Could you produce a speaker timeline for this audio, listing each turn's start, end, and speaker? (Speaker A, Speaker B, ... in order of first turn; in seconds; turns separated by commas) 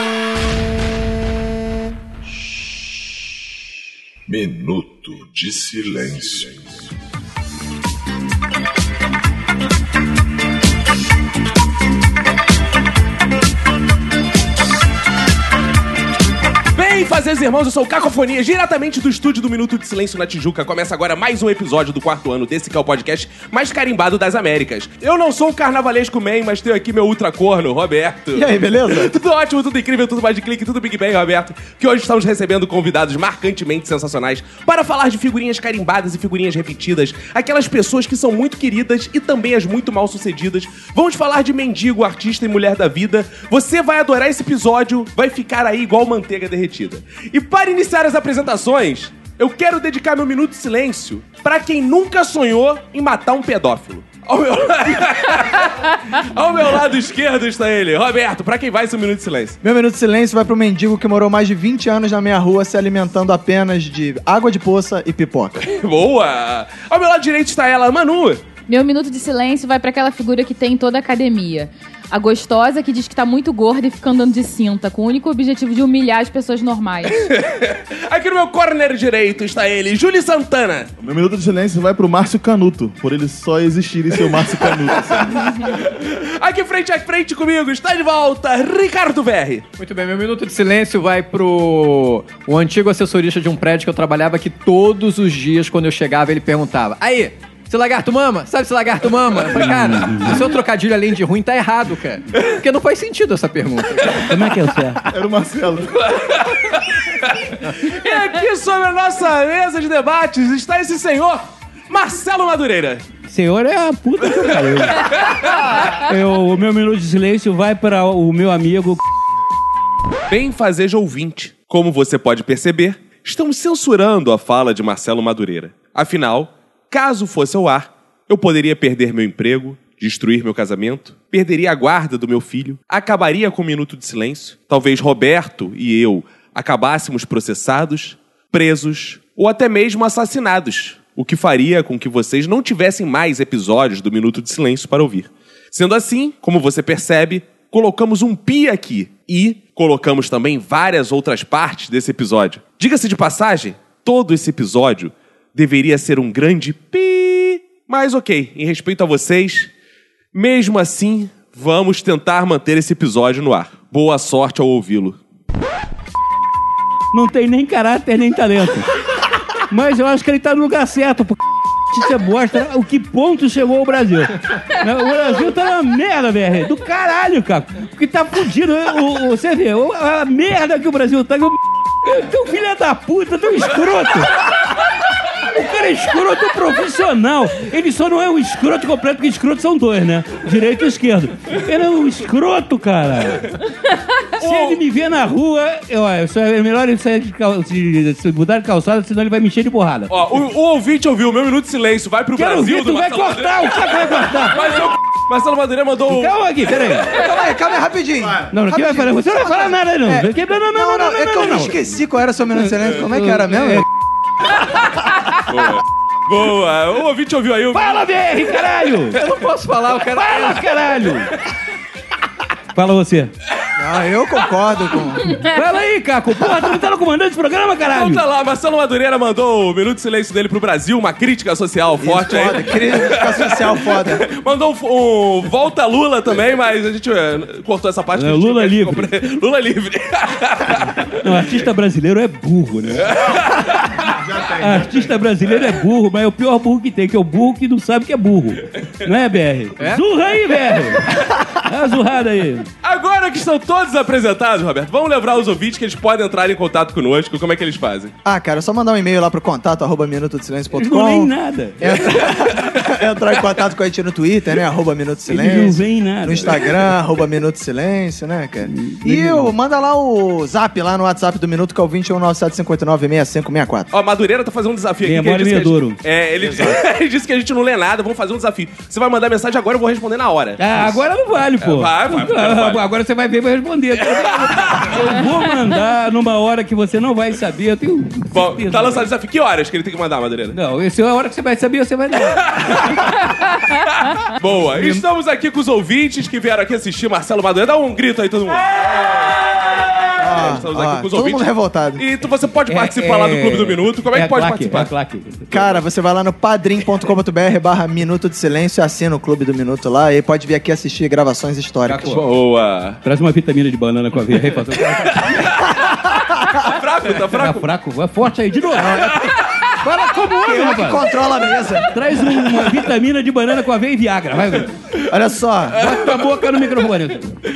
Speaker A: 4.3-6.8, Speaker B: 16.8-59.6, Speaker C: 28.4-29.1, Speaker C: 59.6-65.7, Speaker B: 65.6-68.4, Speaker D: 68.7-77.3, Speaker B: 77.1-80.9, Speaker E: 81.0-85.7, Speaker B: 85.4-89.7, Speaker F: 89.8-104.4, Speaker G: 99.6-100.4, Speaker G: 104.2-105.0, Speaker E: 105.1-106.0, Speaker B: 106.1-113.0, Speaker G: 113.3-115.2, Speaker B: 115.2-115.5, Speaker G: 115.9-119.0, Speaker B: 120.3-159.7, Speaker B: 160.3-165.2, Speaker G: 167.1-168.9, Speaker G: 169.6-171.4, Speaker G: 171.9-184.4, Speaker G: 185.4-193.5, Speaker G: 194.4-200.1, Speaker B: 194.4-194.8, Speaker B: 200.1-203.8, Speaker G: 202.4-204.8, Speaker B: 204.5-206.3, Speaker G: 206.1-207.2, Speaker C: 207.1-213.8, Speaker G: 208.5-212.0, Speaker G: 212.6-213.8, Speaker B: 215.4-218.1, Speaker G: 217.7-219.2, Speaker F: 219.2-220.7, Speaker G: 220.2-221.3, Speaker G: 222.7-223.3, Speaker C: 223.8-225.4, Speaker G: 225.4-228.2, Speaker B: 227.9-241.2, Speaker C: 232.0-234.3, Speaker G: 238.2-239.1, Speaker G: 241.0-243.2, Speaker B: 243.0-244.2, Speaker E: 244.3-244.6, Speaker G: 244.6-252.7, Speaker F: 249.8-250.1, Speaker B: 252.8-258.1, Speaker C: 258.2-273.9, Speaker G: 260.8-261.8, Speaker G: 265.3-266.6, Speaker G: 268.7-269.5, Speaker B: 273.9-281.0, Speaker G: 275.0-276.0, Speaker G: 280.6-289.1, Speaker B: 281.6-282.8, Speaker B: 284.2-285.0, Speaker B: 288.3-290.6, Speaker G: 290.5-292.4, Speaker B: 292.4-293.1, Speaker B: 293.9-304.9, Speaker C: 300.2-302.0, Speaker G: 302.7-305.7, Speaker C: 305.5-312.1, Speaker G: 311.9-312.2, Speaker B: 312.1-313.0, Speaker G: 313.0-315.6, Speaker C: 315.5-316.6, Speaker B: 316.6-317.7, Speaker G: 317.4-319.3, Speaker C: 318.8-319.4, Speaker G: 319.8-321.0, Speaker C: 320.0-321.9, Speaker G: 321.9-324.8, Speaker C: 325.1-325.8, Speaker G: 325.8-327.3